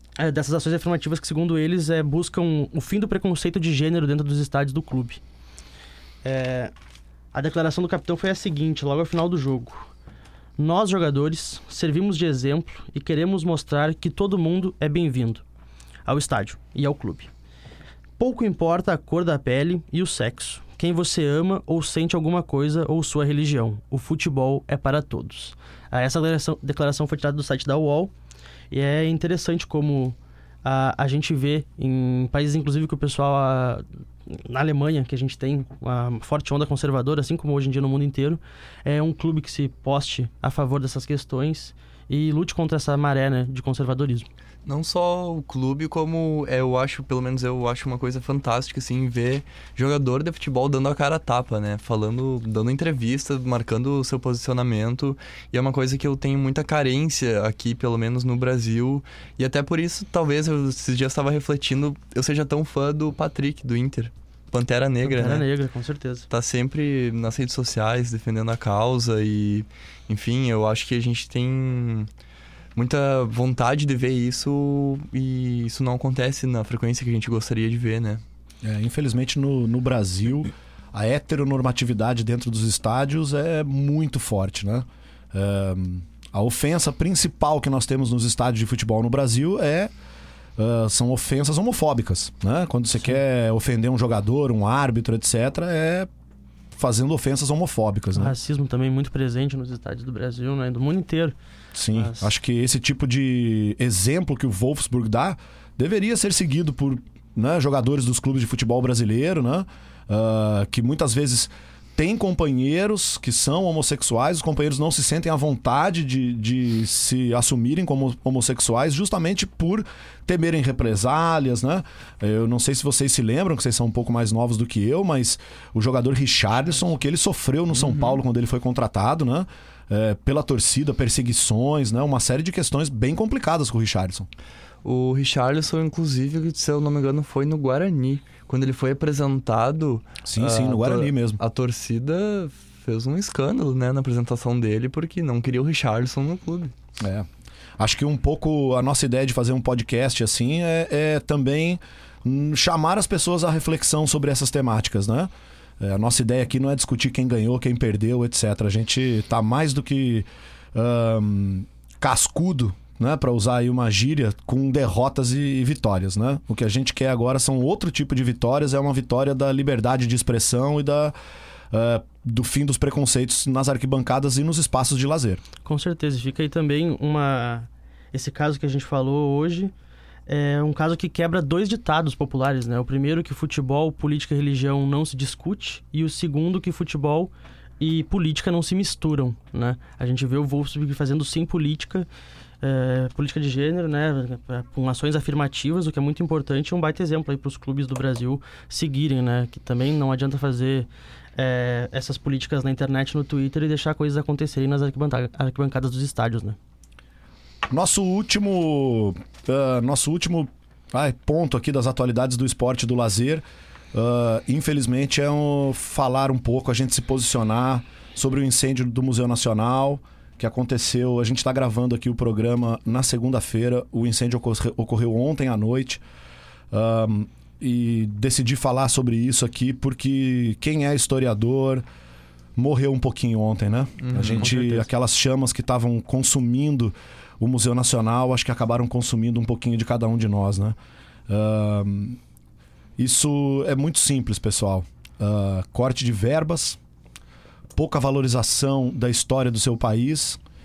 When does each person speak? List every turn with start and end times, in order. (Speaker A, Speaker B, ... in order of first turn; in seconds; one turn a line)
Speaker A: 0.2-5.2
Speaker A: 6.2-6.7
Speaker A: 7.3-9.9
Speaker A: 10.6-15.4
Speaker A: 16.1-17.3
Speaker A: 18.2-28.1
Speaker A: 28.7-44.3
Speaker B: 44.7-65.5
Speaker A: 65.0-66.3
Speaker B: 66.3-72.1
Speaker B: 72.8-78.2
Speaker C: 78.6-89.9
Speaker C: 90.6-96.1
Speaker C: 96.7-98.3
Speaker A: 98.1-101.3
Speaker C: 101.7-134.3
Speaker A: 101.9-102.3
Speaker B: 134.8-146.7
Speaker C: 140.3-141.4
Speaker C: 147.0-147.3
Speaker C: 147.8-171.1
Speaker C: 171.7-175.4
Speaker A: 175.6-179.7
Speaker A: 180.3-192.1
Speaker A: 192.6-206.6
Speaker C: 207.7-226.0
Speaker C: 226.7-231.8
Speaker C: 232.6-240.8
Speaker B: 234.0-234.7
Speaker C: 241.3-242.2
Speaker C: 243.0-246.8
Speaker C: 247.7-250.4